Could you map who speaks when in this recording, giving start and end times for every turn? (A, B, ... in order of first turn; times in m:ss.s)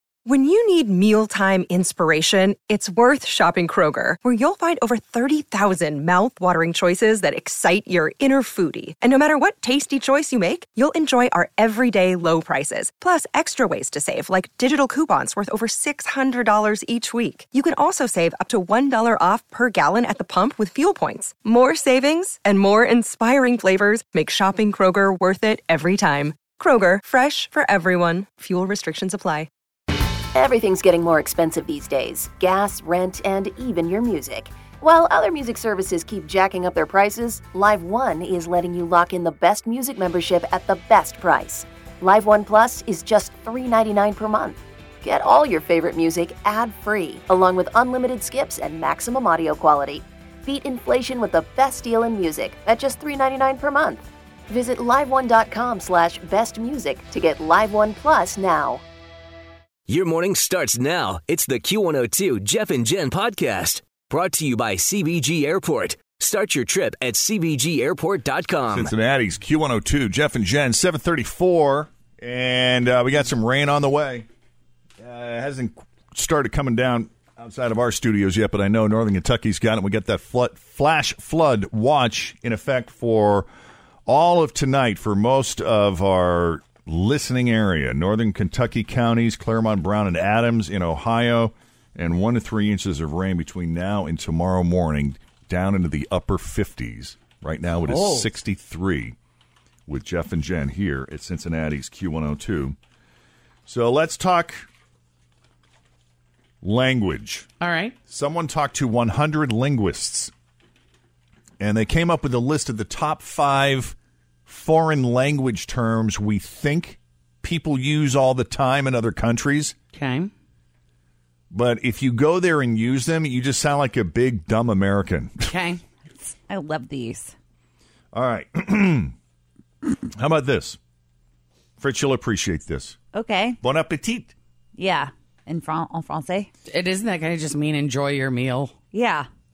0:00.2-0:29.5 A
0:30.3-0:58.8 B
0:59.9-1:08.9 C
1:08.7-1:14.2 D
1:15.0-1:23.5 D
1:24.1-1:39.1 D
1:37.8-1:38.3 E
1:39.9-1:42.8 D
1:43.7-1:44.7 D
1:46.6-1:47.5 D
1:47.6-1:47.9 E
1:48.1-1:50.3 D
1:51.6-1:53.9 D
1:54.5-1:59.7 D
1:59.9-2:00.3 E
2:01.5-2:05.4 D
2:05.5-2:05.8 E
2:06.2-2:07.3 F
2:08.1-2:09.1 D
2:10.2-2:10.8 D
2:11.8-2:13.0 D
2:13.1-2:13.6 F
2:13.6-2:14.3 D
2:14.8-2:16.5 F
2:16.7-2:18.7 E
2:18.9-2:19.3 F